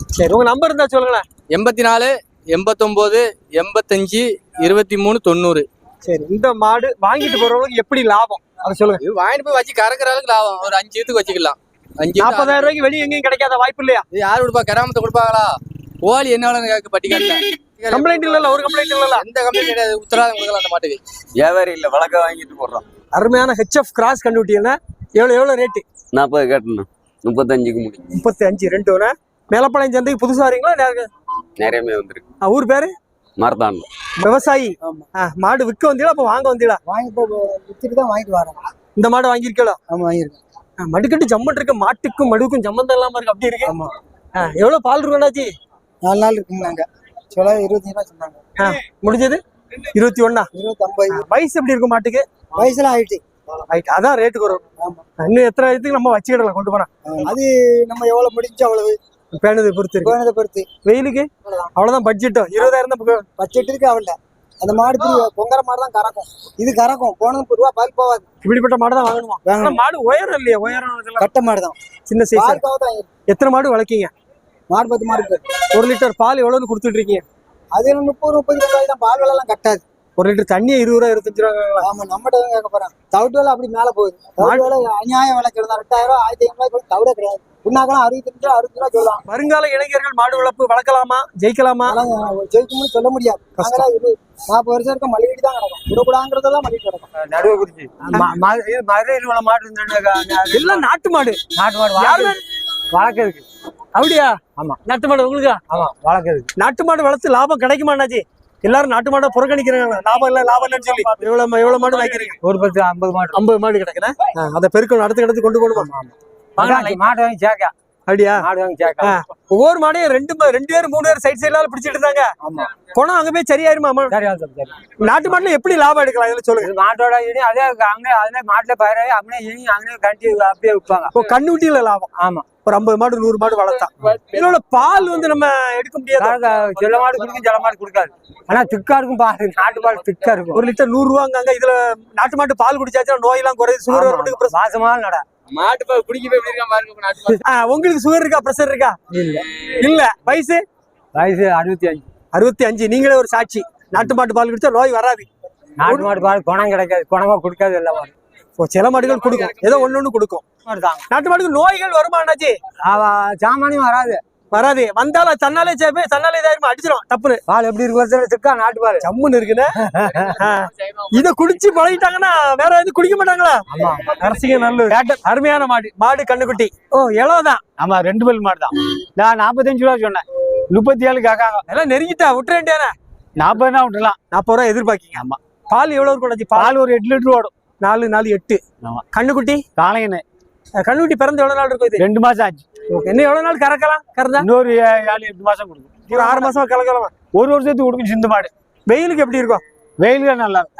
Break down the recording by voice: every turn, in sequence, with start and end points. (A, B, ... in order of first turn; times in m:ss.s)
0:00.1-0:01.2 A
0:01.5-0:05.6 B
0:06.0-0:09.0 A
0:09.0-0:12.7 B
0:12.2-0:14.0 A
0:14.1-0:18.3 B
0:17.9-0:19.2 A
0:19.1-0:21.0 B
0:21.4-0:22.8 C
0:23.1-0:25.8 A
0:26.1-0:28.0 C
0:28.1-0:31.1 A
0:31.6-0:32.2 C
0:32.4-0:32.9 A
0:33.4-0:33.9 C
0:34.2-0:36.8 A
0:36.9-0:38.6 D
0:39.0-0:39.8 A
0:39.9-0:40.4 D
0:40.8-0:43.7 A
0:43.6-0:43.9 D
0:44.4-0:45.5 A
0:46.0-0:48.4 D
0:48.6-0:49.4 A
0:49.9-0:50.5 A
0:50.5-0:51.2 D
0:51.1-0:52.2 A
0:52.6-0:53.2 D
0:53.7-0:54.6 A
0:55.2-0:56.9 A
0:57.1-0:59.0 D
0:59.3-1:00.2 A
1:00.0-1:00.7 D
1:00.8-1:03.2 A
1:03.4-1:08.2 D
1:08.4-1:11.3 A
1:09.4-1:09.8 D
1:11.2-1:11.7 D
1:12.1-1:12.6 A
1:12.3-1:13.1 D
1:13.3-1:14.1 A
1:14.7-1:15.4 D
1:15.7-1:17.2 A
1:17.7-1:19.8 D
1:20.2-1:21.9 A
1:21.8-1:29.2 D
1:24.4-1:24.7 A
1:29.3-1:32.0 A
1:31.8-1:37.1 D
1:33.6-1:33.8 A
1:37.2-1:40.8 E
1:40.5-1:41.4 A
1:41.6-1:42.4 E
1:41.9-1:42.4 A
1:42.9-1:43.4 E
1:43.9-1:44.3 A
1:44.8-1:45.6 A
1:45.7-1:46.5 E
1:46.6-1:52.4 A
1:52.4-1:53.4 E
1:53.3-1:55.9 A
1:55.8-1:57.7 E
1:56.6-1:57.0 A
1:58.1-1:58.5 A
1:58.4-1:59.2 E
1:59.0-2:02.3 A
2:02.9-2:04.2 A
2:04.1-2:04.8 E
2:05.0-2:06.7 A
2:06.6-2:11.1 E
2:11.1-2:12.1 A
2:12.1-2:12.4 E
2:12.6-2:16.4 A
2:16.2-2:20.6 E
2:20.5-2:24.6 A
2:23.9-2:25.2 E
2:25.5-2:27.4 B
2:27.4-2:29.0 A
2:29.1-2:29.4 E
2:29.8-2:30.6 A
2:31.1-2:32.0 E
2:32.3-2:35.3 A
2:35.8-2:38.1 E
2:35.8-2:36.1 A
2:38.6-2:40.4 A
2:40.7-2:41.1 E
2:41.1-2:42.6 A
2:42.8-2:44.2 E
2:44.5-2:47.4 A
2:47.5-2:49.1 E
2:49.0-2:57.6 A
2:49.8-2:50.2 E
2:53.7-2:54.1 E
2:54.9-2:55.2 E
2:57.8-3:01.6 E
3:01.7-3:02.9 A
3:03.4-3:04.2 E
3:04.3-3:06.7 A
3:06.5-3:07.5 E
3:07.8-3:08.6 A
3:09.1-3:09.6 A
3:09.8-3:10.2 E
3:10.8-3:12.0 A
3:12.0-3:12.6 E
3:12.9-3:14.5 A
3:14.4-3:16.5 E
3:16.1-3:17.1 A
3:17.3-3:18.5 E
3:18.9-3:19.6 A
3:20.0-3:20.7 E